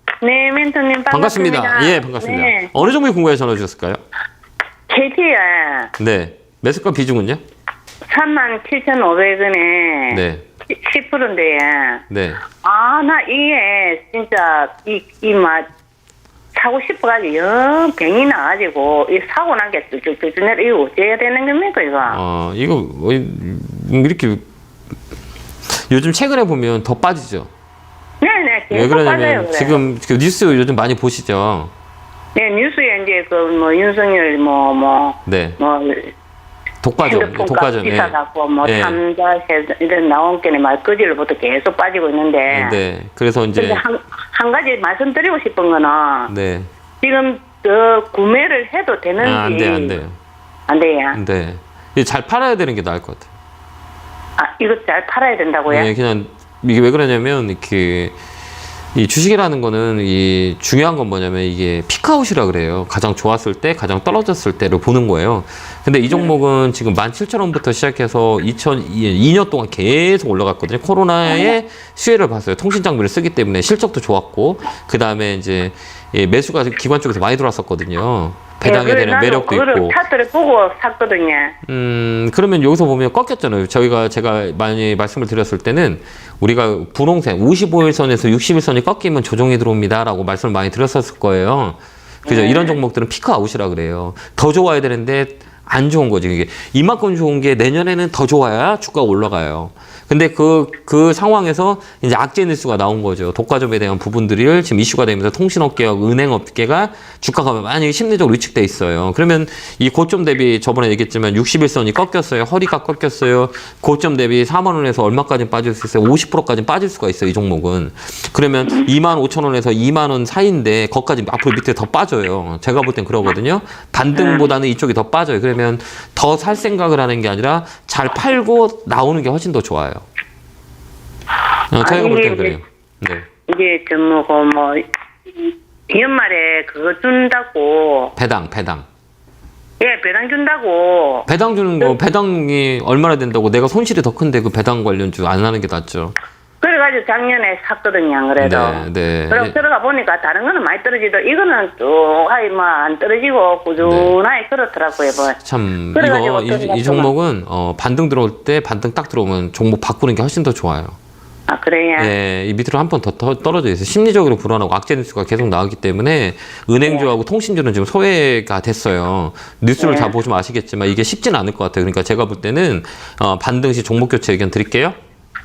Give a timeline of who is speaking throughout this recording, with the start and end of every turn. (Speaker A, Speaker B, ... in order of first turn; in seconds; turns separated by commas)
Speaker A: 0.2-2.8, Speaker B: 1.1-4.0, Speaker A: 4.9-5.9, Speaker B: 6.0-7.4, Speaker A: 8.1-15.7, Speaker B: 10.1-10.4, Speaker B: 12.1-12.4, Speaker A: 16.5-22.2, Speaker B: 22.1-24.4, Speaker B: 25.9-27.5, Speaker A: 28.2-29.8, Speaker B: 28.7-31.7, Speaker A: 32.4-36.1, Speaker B: 35.3-35.6, Speaker B: 36.8-39.0, Speaker A: 37.0-42.8, Speaker B: 42.5-43.8, Speaker A: 43.6-46.3, Speaker B: 46.3-46.7, Speaker A: 47.0-50.0, Speaker B: 49.2-50.2, Speaker A: 50.7-51.2, Speaker B: 51.1-53.3, Speaker A: 54.4-55.9, Speaker B: 55.7-58.2, Speaker B: 58.9-80.0, Speaker A: 66.1-66.3, Speaker A: 71.3-71.5, Speaker A: 78.6-81.6, Speaker B: 81.7-130.1, Speaker A: 92.3-92.8, Speaker A: 124.1-124.5, Speaker B: 131.7-133.3, Speaker A: 131.8-132.6, Speaker A: 133.5-134.8, Speaker A: 135.4-138.1, Speaker B: 138.2-138.8, Speaker A: 139.8-141.3, Speaker B: 141.3-146.1, Speaker A: 146.6-155.4, Speaker B: 148.4-149.6, Speaker B: 153.8-154.2, Speaker B: 155.4-161.0, Speaker A: 155.9-157.1, Speaker A: 161.5-162.1, Speaker B: 162.0-175.0, Speaker A: 166.8-167.1, Speaker A: 169.8-170.1